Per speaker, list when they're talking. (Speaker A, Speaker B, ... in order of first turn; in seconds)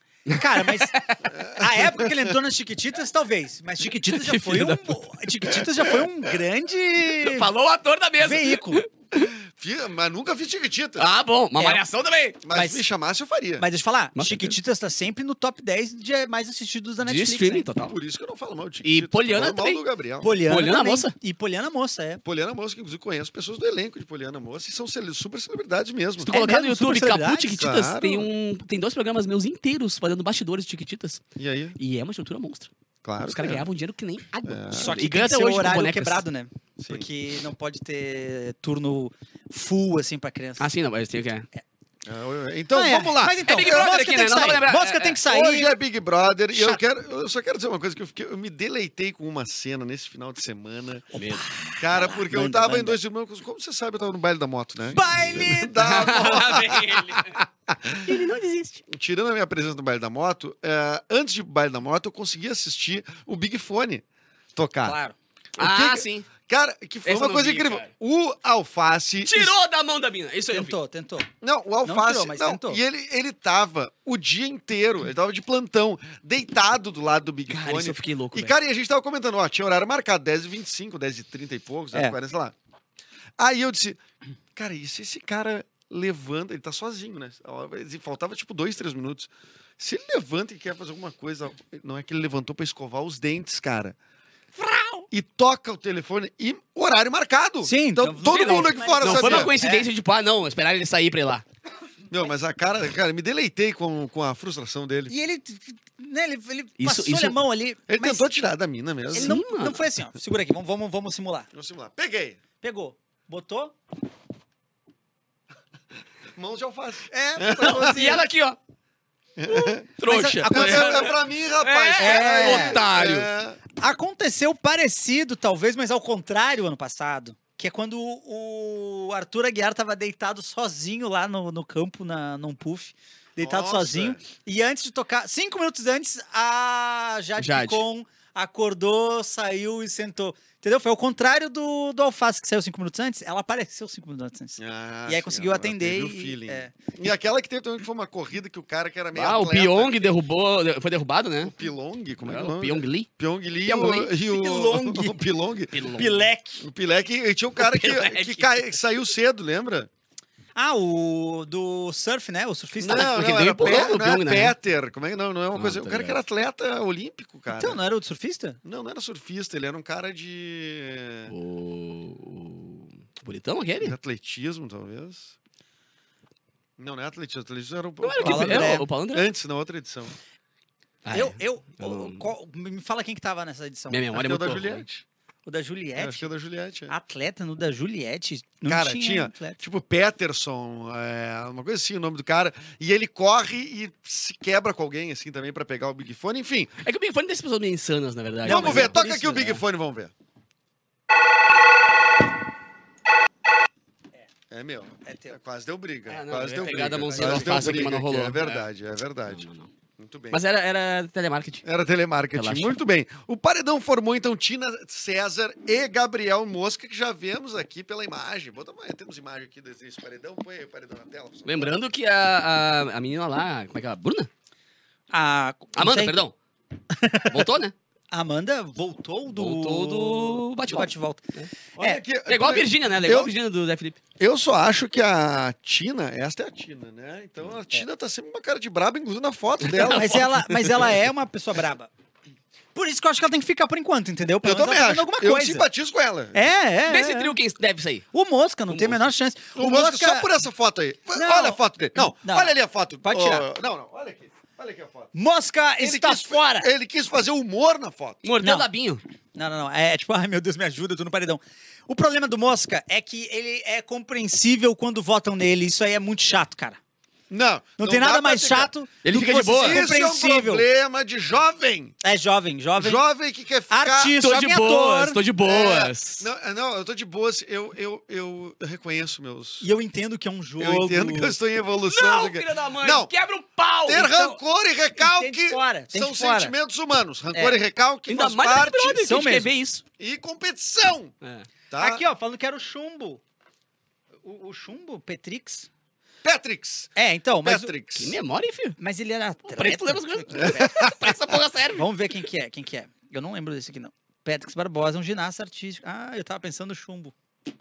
Speaker A: 0.3-7.5, 8.2-8.8, 11.6-11.8, 12.5-12.8, 13.6-17.7, 20.2-22.2, 26.3-27.6, 34.7-40.7, 42.7-45.7, 46.5-46.8, 51.1-53.0, 54.9-56.5, 64.8-65.2, 70.5-71.3, 71.8-72.8, 94.6-95.1, 97.6-99.9, 105.1-108.3, 109.1-111.5, 112.6-113.8, 117.1-118.2, 120.0-121.1, 122.0-122.8, 123.8-146.7, 154.1-155.2, 156.0-156.6, 160.6-163.9, 167.5-168.6, 178.2-178.9, 181.1-184.0, 185.5-186.3, 186.9-189.6, 198.4-199.6, 205.1-205.4, 207.1-207.9, 225.1-226.2, 226.9-227.5, 228.1-231.2, 239.8-241.9, 242.7-245.7, 246.3-247.3, 248.1-250.3, 251.1-253.5, 255.1-256.7, 258.4-258.7, 259.3-266.8, 267.8-270.7, 272.0-273.0, 273.7-275.2, 279.6-281.4, 283.9-284.4, 285.0-286.5, 287.3-287.6, 289.0-289.5, 291.8-293.2, 294.2-295.7, 297.0-297.7, 298.8-300.9, 301.8-307.1
Speaker B: 0.3-1.2, 4.0-5.0, 7.2-9.3, 11.0-12.4, 14.2-14.6, 17.0-17.9, 18.8-19.8, 20.5-21.1, 26.2-31.2, 31.8-32.7, 33.2-36.2, 40.6-41.5, 43.5-45.2, 51.2-51.4, 55.8-57.4, 58.1-58.8, 65.6-66.3, 67.0-67.9, 69.2-70.8, 77.5-78.5, 98.2-101.4, 106.8-107.4, 109.1-109.8, 117.6-118.6, 119.7-123.3, 137.4-137.8, 149.2-151.5, 152.2-153.1, 153.7-154.1, 155.7-156.2, 157.6-158.6, 162.9-164.6, 165.6-166.2, 171.3-173.9, 178.0-179.3, 181.1-182.3, 183.9-184.8, 196.8-199.6, 206.1-208.7, 209.3-209.7, 210.3-211.7, 212.3-212.8, 221.4-224.3, 225.8-226.3, 227.3-227.7, 229.3-231.5, 232.3-234.0, 239.6-240.7, 246.9-248.1, 248.7-249.0, 258.2-259.0, 269.0-269.8, 274.2-276.3, 281.8-284.1, 288.1-289.8, 291.2-291.5, 298.0-298.8, 299.5-301.9
Speaker C: 1.3-2.3, 9.1-11.1, 12.4-13.7, 17.8-20.3, 22.2-26.3, 27.6-28.3, 31.4-31.8, 33.0-33.7, 34.5-35.0, 36.8-37.1, 42.0-43.5, 45.3-51.1, 51.8-58.0, 58.9-65.0, 65.6-69.5, 71.4-82.5, 83.4-84.0, 84.6-94.0, 95.1-99.5, 102.1-105.1, 107.9-109.4, 111.5-112.4, 116.3-118.2, 119.4-119.8, 120.5-123.6, 133.4-134.2, 144.6-150.2, 151.4-155.8, 156.6-159.9, 162.8-167.8, 168.6-171.3, 173.8-175.3, 176.8-180.2, 184.1-185.1, 186.0-186.9, 188.7-196.7, 198.4-200.1, 204.5-209.4, 210.0-210.4, 211.7-221.8, 231.8-233.3, 234.2-240.2, 244.4-246.5, 249.6-255.1, 255.8-258.2, 267.3-268.7, 269.5-272.0, 272.8-274.2, 275.4-279.7, 280.6-283.1, 283.9-289.0, 290.0-291.1, 291.7-292.0, 296.2-298.2, 300.3-301.1